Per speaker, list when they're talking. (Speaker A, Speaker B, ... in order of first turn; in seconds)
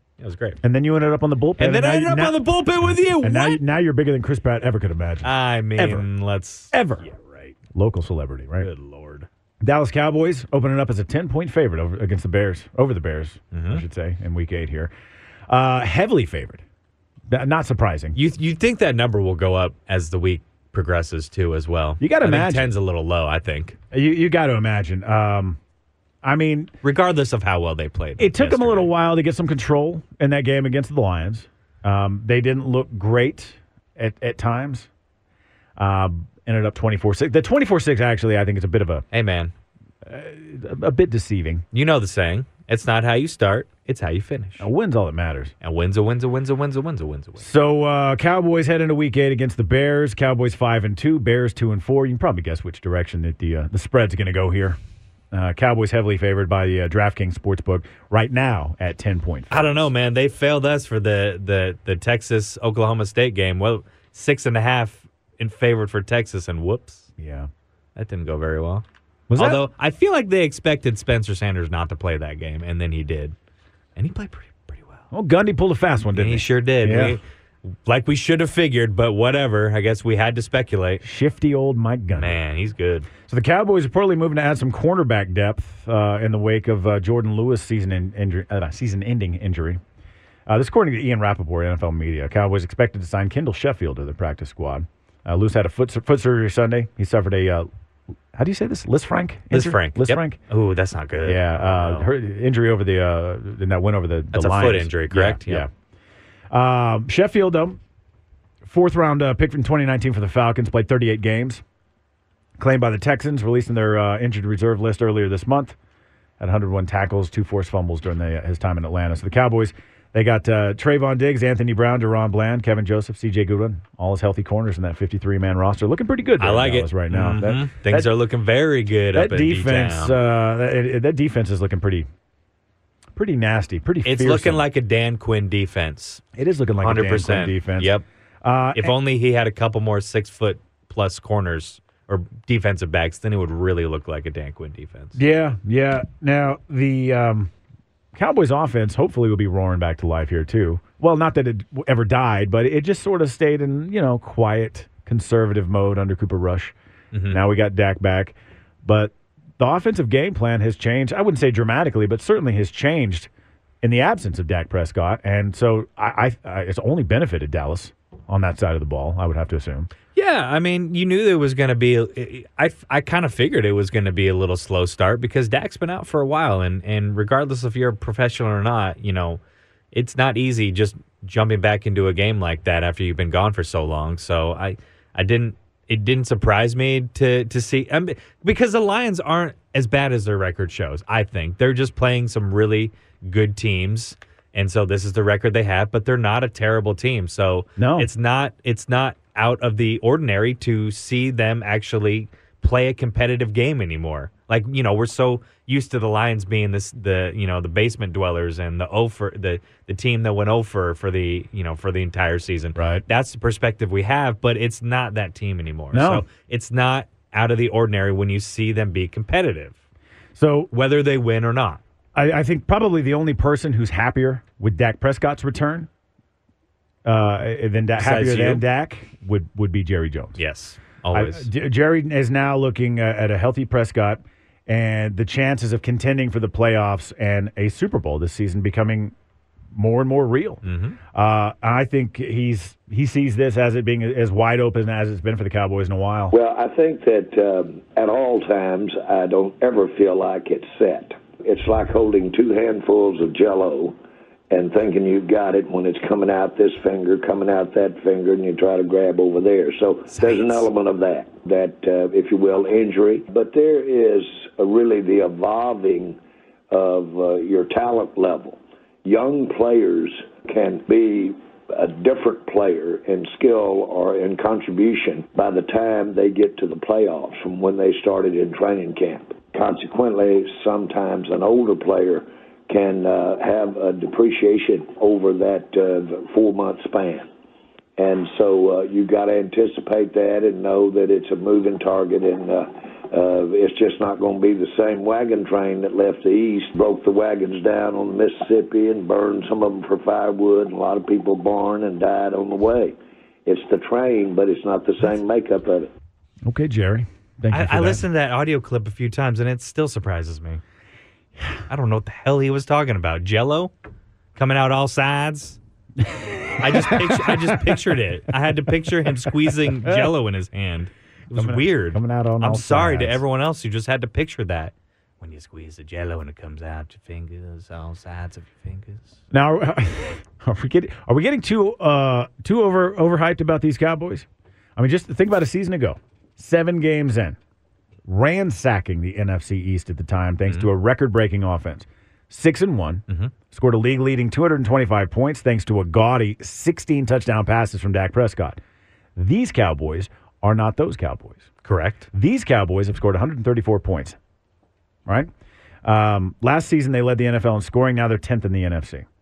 Speaker A: 0.2-0.6, 1.6-3.6, 5.2-7.5, 8.6-9.3, 13.5-13.8, 18.1-23.8, 26.8-28.9, 39.1-39.5, 41.7-44.7, 45.6-47.5, 59.5-67.1, 68.0-68.8, 69.4-73.3, 74.0-75.0, 76.1-81.0, 82.1-83.1, 99.5-102.1, 104.3-105.7, 126.4-130.2, 134.1-136.2, 136.8-138.1, 138.8-145.2, 157.1-157.4, 170.1-179.4, 179.9-219.8, 220.7-221.8, 228.0-228.6, 230.4-231.5, 240.6-241.0, 260.1-260.7, 307.5-310.6, 311.7-313.7, 314.4-315.6, 316.6-329.2, 351.6-352.1
Speaker B: 0.6-2.4, 3.0-6.1, 6.7-7.1, 7.7-8.7, 9.6-14.9, 15.5-16.6, 17.3-18.2, 22.0-22.7, 23.9-25.6, 26.2-26.7, 28.2-34.9, 35.8-39.0, 40.0-41.6, 44.6-45.5, 47.4-54.8, 55.3-59.9, 67.2-67.5, 69.3-69.7, 75.1-77.2, 81.0-82.4, 83.2-89.8, 90.5-97.7, 98.3-100.4, 101.2-105.7, 106.5-107.8, 108.6-111.6, 112.6-115.8, 116.4-128.1, 129.1-132.1, 133.2-134.7, 136.3-138.9, 145.2-147.5, 148.2-156.7, 157.3-163.3, 163.8-169.9, 197.8-198.1, 212.8-213.0, 215.9-216.2, 220.3-220.7, 222.2-225.9, 227.1-230.4, 231.1-239.1, 239.7-240.6, 241.1-246.3, 306.4-308.1, 316.0-317.8, 318.9-320.1, 321.3-323.2, 329.3-337.4, 338.1-348.6, 349.2-351.5, 352.1-354.2, 355.8-359.1
Speaker C: 246.3-254.0, 254.5-266.2, 266.7-287.3, 288.0-302.9, 303.5-305.9